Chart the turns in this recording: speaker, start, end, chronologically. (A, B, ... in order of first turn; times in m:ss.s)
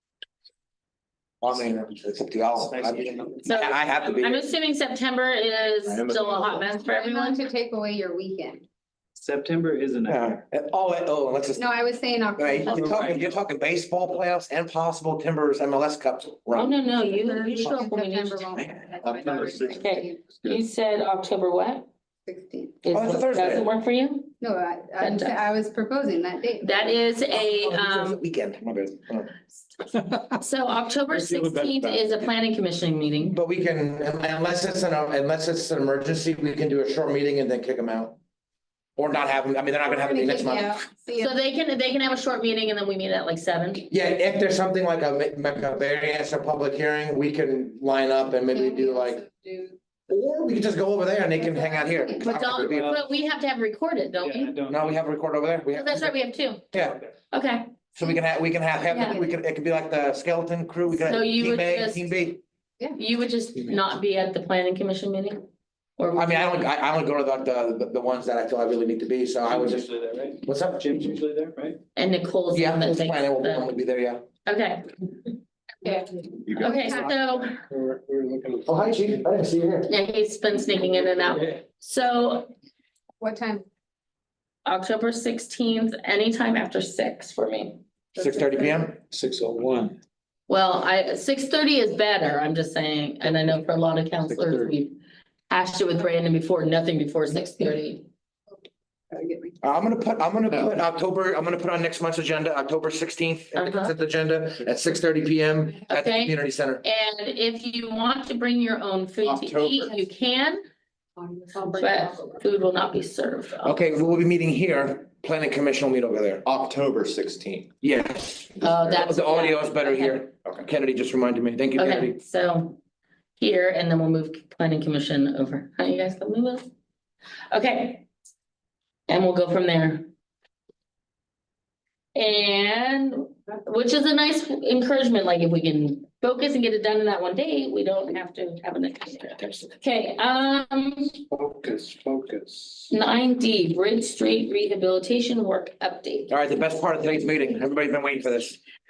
0:01.4-0:04.4 A
0:02.6-0:04.3 B
0:03.4-0:07.4 C
0:05.9-0:06.4 B
0:06.1-0:08.6 D
0:09.2-0:10.3 B
0:10.1-0:11.7 A
0:11.6-0:13.1 D
0:12.4-0:16.7 A
0:12.6-0:13.3 B
0:16.5-0:18.6 C
0:17.0-0:20.3 D
0:18.6-0:18.8 A
0:19.0-0:19.7 B
0:19.3-0:19.6 E
0:19.6-0:21.9 C
0:22.2-0:22.8 D
0:22.8-0:24.3 C
0:22.9-0:23.7 A
0:24.4-0:27.0 D
0:25.0-0:25.4 C
0:26.6-0:28.2 C
0:27.3-0:29.3 A
0:30.4-0:33.4 C
0:31.2-0:32.0 F
0:33.2-0:38.2 A
0:39.0-0:40.8 A
0:39.8-0:41.3 D
0:41.1-0:43.9 C
0:43.9-0:49.2 A
0:48.5-0:49.8 D
0:50.1-0:53.0 A
0:51.3-0:52.3 D
0:52.2-0:54.5 C
0:52.6-0:53.1 B
0:54.2-0:55.1 B
0:54.7-0:56.1 A
0:55.7-0:56.6 C
0:56.7-0:57.1 B
0:57.3-0:57.7 C
0:57.9-1:02.4 A
0:58.9-0:59.2 C
0:58.9-0:59.3 D
1:01.0-1:02.3 C
1:03.0-1:05.4 C
1:06.0-1:06.6 C
1:06.1-1:09.9 A
1:09.4-1:11.8 B
1:10.4-1:10.9 A
1:11.9-1:13.7 C
1:12.5-1:14.2 A
1:14.4-1:15.0 C
1:15.8-1:17.0 D
1:16.5-1:16.8 E
1:16.6-1:17.6 C
1:16.8-1:19.2 F
1:18.6-1:19.9 A
1:19.9-1:22.5 C
1:23.2-1:23.6 D
1:24.6-1:27.8 C
1:28.2-1:28.9 D
1:28.2-1:29.0 A
1:29.1-1:30.0 F
1:30.5-1:35.0 C
1:35.5-1:38.1 C
1:39.1-1:39.6 D
1:39.6-1:46.8 A
1:43.5-1:43.9 C
1:45.9-1:50.6 C
1:49.2-1:49.9 E
1:51.2-1:52.4 D
1:51.7-1:53.8 C
1:53.6-1:56.5 A
1:56.4-1:57.7 E
1:57.8-2:02.2 A
1:58.6-2:00.2 C
2:01.8-2:02.8 C
2:03.4-2:06.7 C
2:07.5-2:08.1 C
2:09.1-2:10.1 C
2:12.1-2:21.2 C
2:19.4-2:19.7 A
2:21.3-2:22.9 F
2:22.9-2:26.3 C
2:26.3-2:28.6 A